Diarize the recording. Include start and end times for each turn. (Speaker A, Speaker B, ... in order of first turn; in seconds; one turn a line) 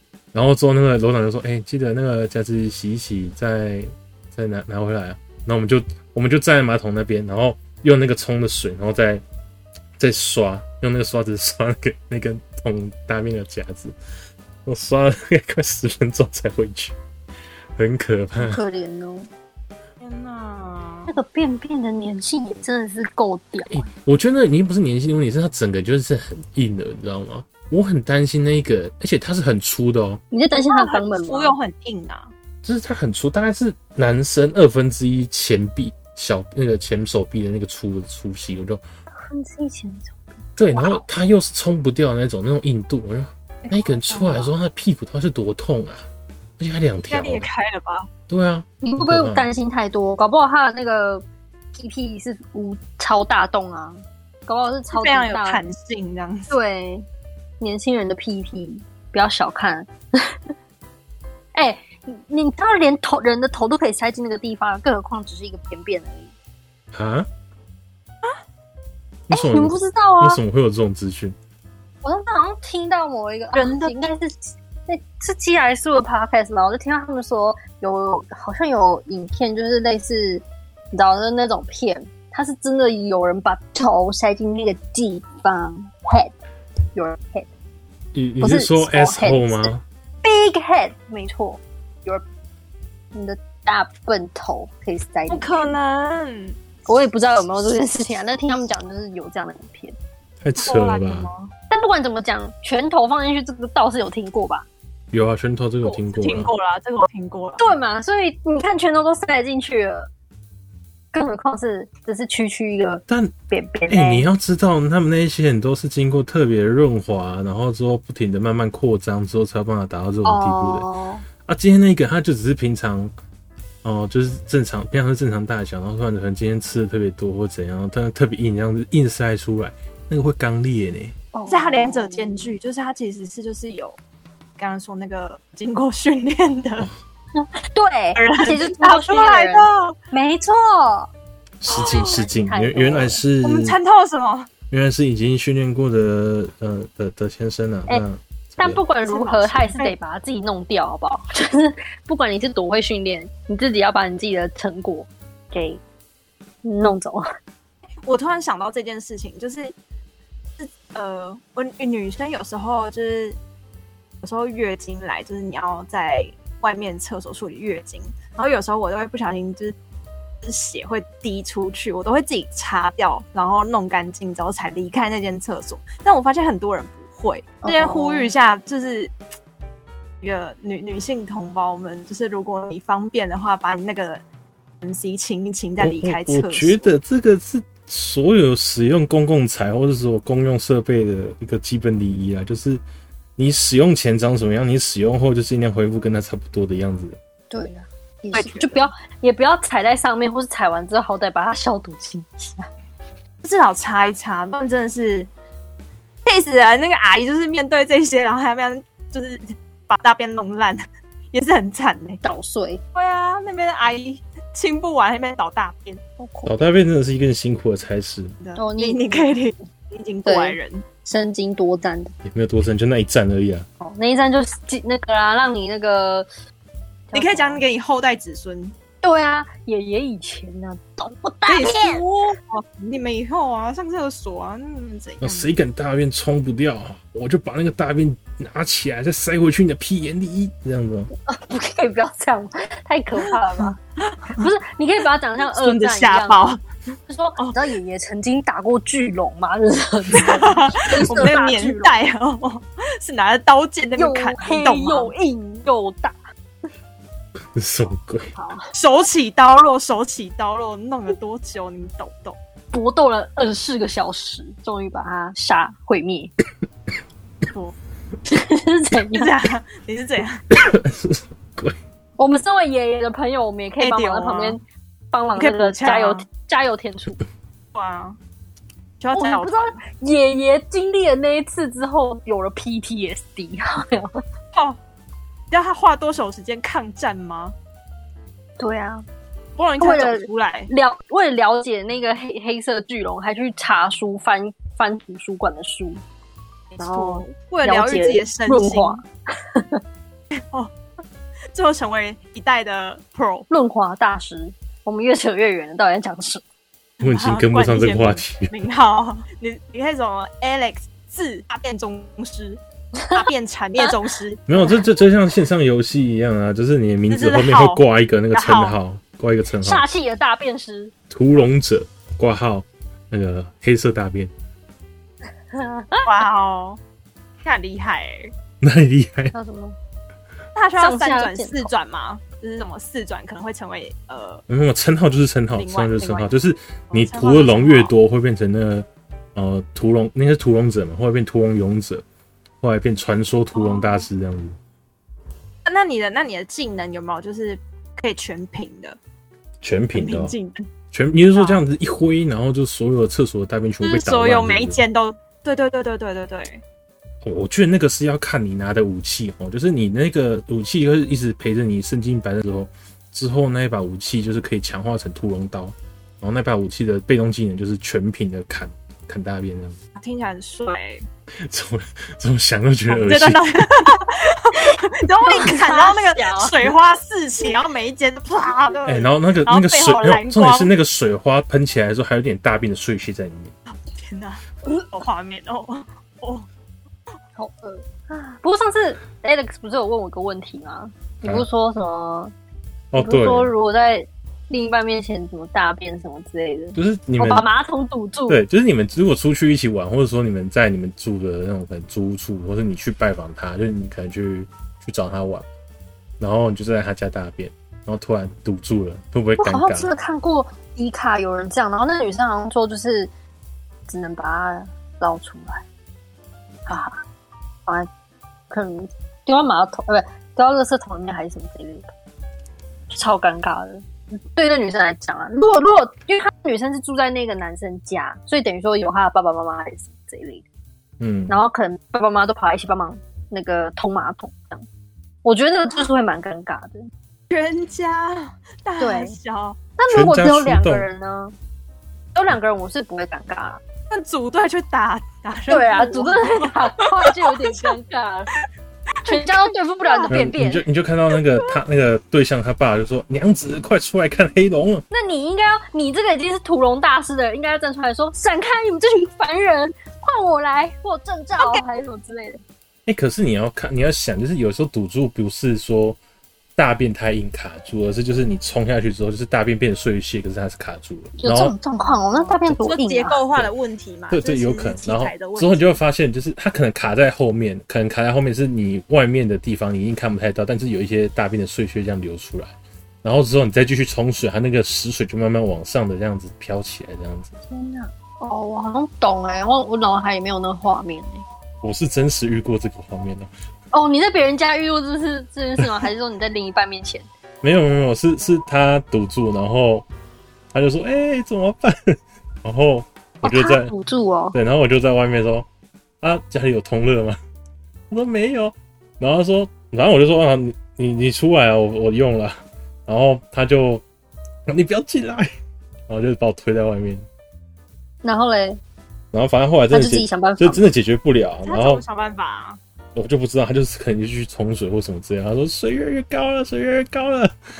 Speaker A: 0.3-9.2
Speaker A: 10.0-13.9
Speaker A: 14.6-16.9
Speaker A: 17.8-18.6
Speaker B: 18.4-19.3
Speaker C: 20.0-21.1
Speaker B: 21.1-23.9
Speaker A: 23.7-30.2
Speaker B: 30.3-31.6
Speaker C: 30.7-32.3
Speaker A: 32.6-38.8
Speaker B: 39.1-41.0
Speaker A: 40.6-46.0
Speaker B: 44.1-44.5
Speaker A: 46.6-47.5
Speaker C: 47.1-48.1
Speaker A: 48.3-49.5
Speaker B: 48.8-55.6
Speaker C: 54.9-56.5
Speaker B: 56.5-57.0
Speaker B: 57.6-60.3
Speaker B: 61.5-66.3
Speaker A: 66.9-67.3
Speaker A: 69.3-71.3
Speaker B: 69.3-70.4
Speaker B: 72.0-86.3
Speaker C: 73.5-74.0
Speaker B: 86.9-87.5
Speaker A: 88.1-89.8
Speaker B: 88.4-89.7
Speaker B: 90.2-92.2
Speaker B: 93.1-95.7
Speaker C: 95.3-96.6
Speaker B: 96.8-100.0
Speaker A: 100.4-101.3
Speaker C: 100.6-101.5
Speaker B: 101.7-104.7
Speaker A: 105.1-106.5
Speaker C: 105.8-107.7
Speaker B: 107.6-110.1
Speaker B: 111.1-114.3
Speaker A: 113.1-113.3
Speaker A: 113.9-120.9
Speaker B: 120.2-121.2
Speaker A: 121.5-123.1
Speaker A: 123.8-131.1
Speaker B: 131.3-132.5
Speaker C: 131.5-134.0
Speaker C: 134.6-136.9
Speaker B: 137.4-141.1
Speaker C: 138.1-139.9
Speaker A: 141.6-143.8
Speaker C: 141.7-142.2
Speaker B: 141.7-143.2
Speaker C: 143.4-144.5
Speaker A: 144.7-148.8
Speaker B: 148.6-155.8
Speaker C: 149.0-149.9
Speaker B: 156.6-157.2
Speaker C: 158.0-159.7
Speaker C: 160.6-163.4
Speaker C: 164.2-169.7
Speaker C: 170.4-179.1
Speaker B: 177.6-178.3
Speaker C: 180.2-184.2
Speaker C: 184.8-186.8
Speaker A: 185.8-192.8
Speaker A: 193.4-197.2
Speaker B: 197.5-202.7
Speaker C: 198.3-198.9
Speaker C: 203.4-205.3
Speaker C: 206.2-212.2
Speaker B: 212.2-212.8
Speaker C: 212.9-216.0
Speaker B: 216.2-216.5
Speaker A: 216.4-218.3
Speaker C: 218.4-220.8
Speaker B: 218.6-219.3
Speaker B: 220.2-222.1
Speaker A: 222.2-223.7
Speaker B: 223.8-226.3
Speaker B: 227.1-227.6
Speaker C: 227.1-228.7
Speaker B: 229.0-232.0
Speaker C: 231.5-235.5
Speaker A: 235.2-241.1
Speaker B: 241.2-243.8
Speaker C: 243.2-244.5
Speaker B: 244.3-246.5
Speaker C: 245.5-246.6
Speaker B: 247.1-252.0
Speaker C: 247.4-247.7
Speaker C: 250.1-255.1
Speaker A: 251.1-251.3
Speaker B: 253.9-256.1
Speaker A: 257.5-258.3
Speaker B: 258.3-258.7
Speaker C: 258.7-262.4
Speaker B: 262.7-266.3
Speaker B: 268.2-269.3
Speaker C: 269.1-270.4
Speaker A: 270.5-271.8
Speaker B: 272.2-274.6
Speaker C: 273.8-274.6
Speaker B: 275.1-277.2
Speaker C: 275.4-276.2
Speaker C: 277.7-278.2
Speaker C: 279.0-279.8
Speaker B: 279.1-284.2
Speaker C: 284.5-284.8
Speaker C: 285.5-287.5
Speaker B: 288.6-289.0
Speaker C: 289.6-290.7
Speaker B: 289.8-296.0
Speaker C: 296.7-299.0
Speaker B: 296.8-299.8
Speaker C: 300.3-300.7
Speaker C: 301.5-303.5
Speaker B: 303.5-306.4
Speaker C: 307.0-312.6
Speaker A: 307.0-308.5
Speaker B: 312.9-313.2
Speaker C: 313.1-314.5
Speaker A: 314.5-319.9
Speaker C: 317.1-318.8
Speaker B: 319.6-320.9
Speaker A: 321.1-324.3
Speaker B: 325.5-326.1
Speaker C: 326.0-326.8
Speaker C: 327.4-328.3
Speaker A: 328.6-329.3
Speaker B: 329.3-329.8
Speaker C: 330.5-334.4
Speaker B: 330.8-331.7
Speaker A: 334.5-342.0
Speaker C: 335.5-336.3
Speaker C: 336.9-337.9
Speaker A: 342.6-344.6
Speaker C: 343.5-344.1
Speaker C: 345.6-349.0
Speaker A: 349.6-350.4
Speaker C: 349.9-350.6
Speaker A: 350.9-354.8
Speaker C: 351.3-351.6
Speaker C: 353.8-356.6
Speaker A: 357.2-369.8
Speaker C: 369.9-371.0
Speaker A: 371.4-373.6
Speaker C: 372.9-380.7
Speaker B: 374.6-376.6
Speaker A: 378.9-383.5
Speaker C: 383.9-386.5
Speaker B: 387.4-392.3
Speaker A: 392.9-393.5
Speaker B: 392.9-398.4
Speaker A: 396.8-397.4
Speaker A: 398.3-405.4
Speaker A: 406.2-409.9
Speaker B: 409.4-413.1
Speaker B: 413.9-415.6
Speaker B: 416.6-417.0
Speaker B: 418.5-421.9
Speaker B: 422.9-430.4
Speaker A: 431.0-431.4
Speaker B: 431.3-434.6
Speaker B: 435.2-436.9
Speaker C: 437.3-439.6
Speaker B: 438.8-439.1
Speaker B: 439.8-441.3
Speaker A: 439.9-440.9
Speaker B: 442.1-443.6
Speaker C: 443.9-447.8
Speaker B: 445.5-448.3
Speaker C: 449.0-450.1
Speaker B: 449.0-450.6
Speaker A: 450.1-454.8
Speaker C: 451.2-451.6
Speaker B: 454.9-462.4
Speaker C: 461.4-461.6
Speaker A: 462.9-466.0
Speaker A: 466.6-471.5
Speaker B: 471.2-473.2
Speaker C: 471.9-475.8
Speaker A: 474.1-482.5
Speaker A: 483.0-487.4
Speaker B: 487.5-491.2
Speaker A: 491.6-493.3
Speaker B: 493.7-497.1
Speaker A: 495.6-495.8
Speaker A: 497.4-499.9
Speaker A: 500.5-503.7
Speaker B: 503.2-504.4
Speaker A: 504.3-505.5
Speaker A: 506.0-507.2
Speaker A: 507.9-513.8
Speaker A: 514.5-515.3
Speaker A: 515.9-517.0
Speaker B: 518.0-518.6
Speaker A: 519.1-521.8
Speaker B: 519.7-520.7
Speaker C: 521.4-522.6
Speaker A: 522.9-527.3